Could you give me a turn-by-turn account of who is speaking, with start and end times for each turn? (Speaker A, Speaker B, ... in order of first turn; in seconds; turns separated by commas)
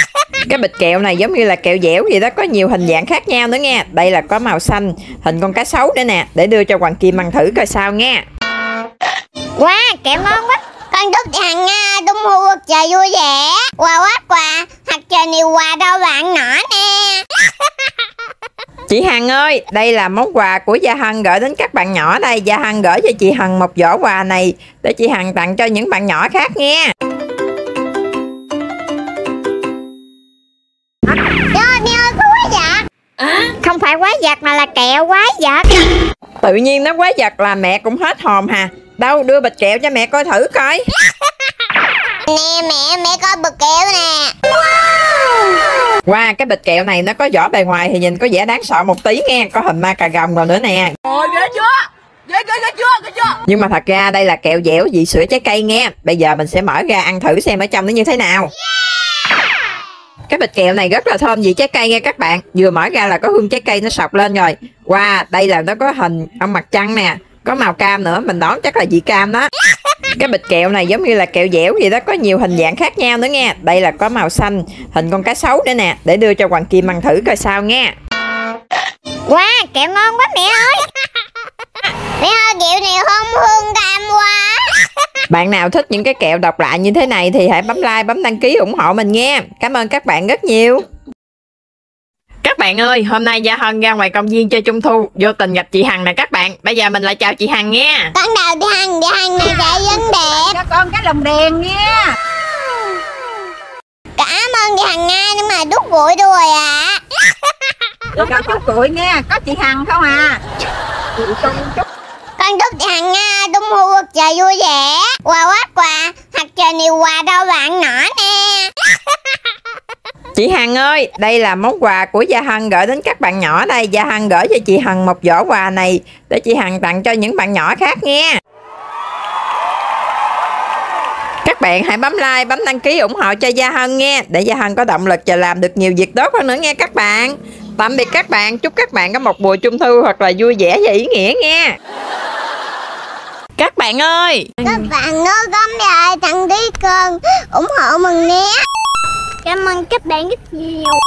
Speaker A: 0.5-8.2, Speaker B: 9.6-17.9, Speaker A: 18.9-26.9, Speaker B: 31.3-32.8, Speaker A: 36.4-40.9, Speaker B: 42.1-44.4, Speaker A: 46.0-51.0, Speaker C: 51.1-51.7, Speaker C: 52.3-53.2, Speaker A: 53.3-58.5, Speaker A: 60.3-69.5, Speaker A: 70.2-77.9, Speaker B: 79.3-80.9, Speaker B: 81.8-84.9, Speaker A: 85.3-90.8, Speaker A: 92.4-98.1, Speaker B: 98.1-100.6, Speaker C: 100.4-102.1, Speaker B: 104.2-107.3, Speaker C: 108.2-110.4, Speaker C: 111.2-111.7, Speaker B: 112.4-119.0, Speaker A: 120.3-128.4, Speaker A: 131.4-141.7, Speaker A: 143.6-144.7, Speaker B: 144.6-148.6, Speaker B: 149.4-151.0